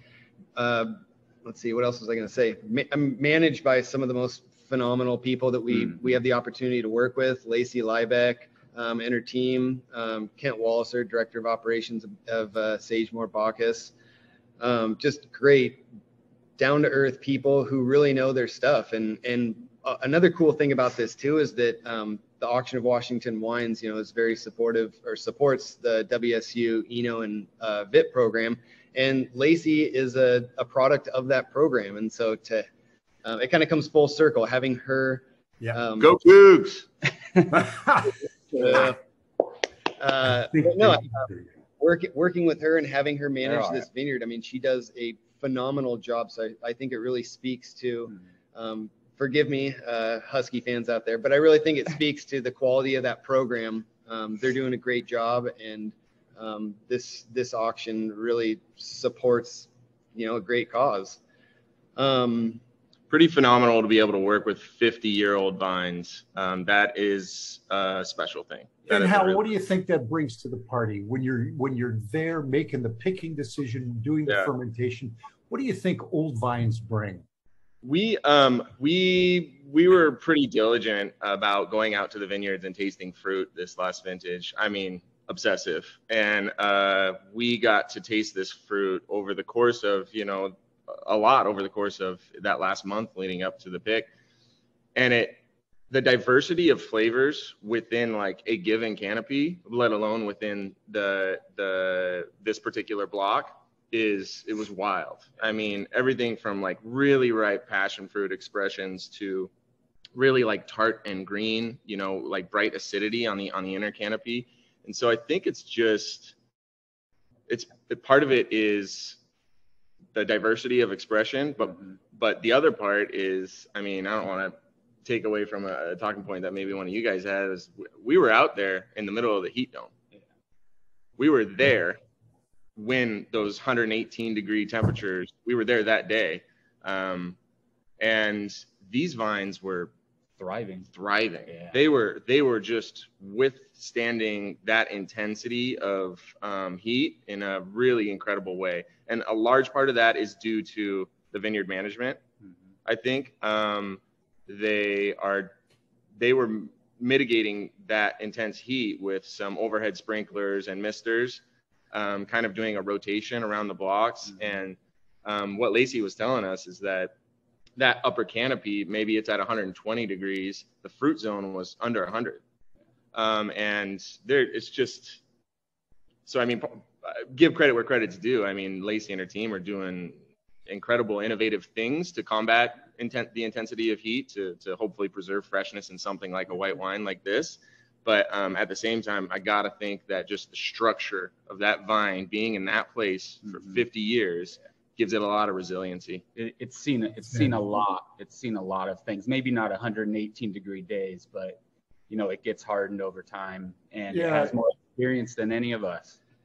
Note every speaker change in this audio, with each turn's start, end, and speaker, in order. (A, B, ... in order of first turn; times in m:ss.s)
0:00.6-0:00.9 A
0:01.4-0:13.9 A
0:14.6-0:15.8 A
0:16.6-0:32.7 A
0:33.2-0:36.1 A
0:36.0-0:36.9 B
0:37.5-0:38.1 C
0:38.5-0:39.0 A
0:40.0-0:41.3 A
0:40.5-0:41.5 C
0:41.8-1:01.2 A
0:43.4-0:43.9 D
1:02.0-1:02.6 A
1:03.1-1:09.4 B
1:08.9-1:17.2 C
1:17.8-1:34.1 B
1:35.0-1:49.5 B
1:50.1-1:56.4 B
1:57.5-1:59.2 B
2:00.1-2:04.5 B
2:05.0-2:09.9 B
2:11.2-2:12.0 B
2:12.8-2:17.4 B
2:18.0-2:19.9 B
2:20.4-2:20.9 D
2:20.9-2:32.2 B
2:21.5-2:21.8 D
2:32.8-2:35.5 B
2:36.2-2:47.1 B
2:47.8-2:52.4 B
2:53.1-2:55.2 B
2:56.3-3:16.2 B
3:16.4-3:26.2 D
3:24.1-3:24.5 C